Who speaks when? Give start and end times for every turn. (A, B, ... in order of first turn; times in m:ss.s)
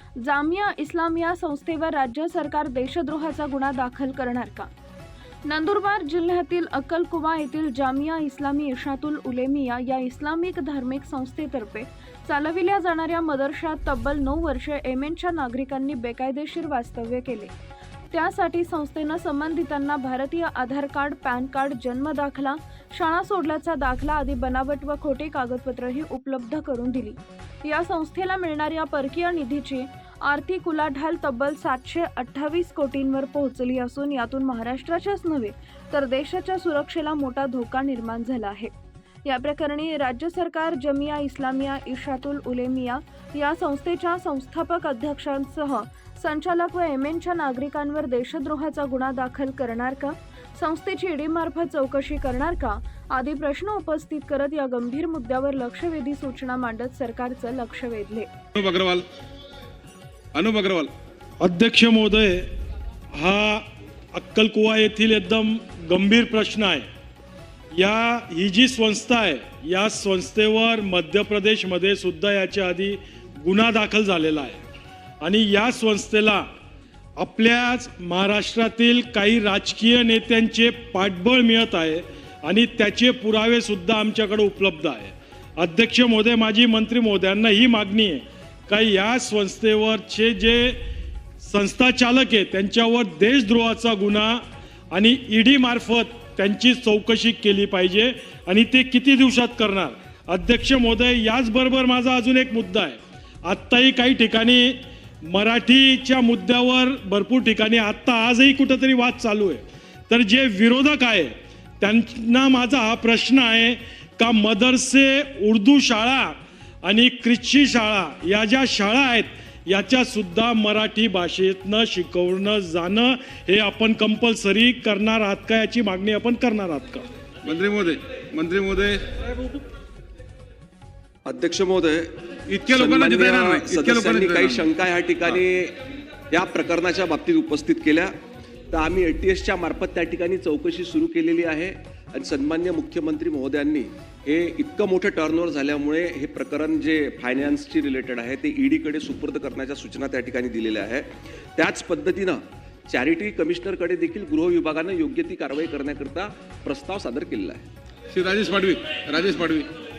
0:00.2-0:04.7 A
0:05.5-0:17.5 A
0:18.1-0:38.7 A
0:39.2-0:58.3 A
0:58.6-0:59.1 B
1:00.3-1:00.9 B
1:01.4-1:02.5 C
1:03.1-1:06.9 C
1:07.7-1:14.6 C
1:15.2-1:16.5 C
1:17.2-1:30.8 C
1:31.4-2:07.1 C
2:07.4-2:09.4 B
2:11.3-2:12.2 D
2:12.5-2:14.7 B
2:12.7-2:15.8 D
2:16.3-2:18.1 D
2:18.7-2:37.7 D
2:38.1-2:39.7 B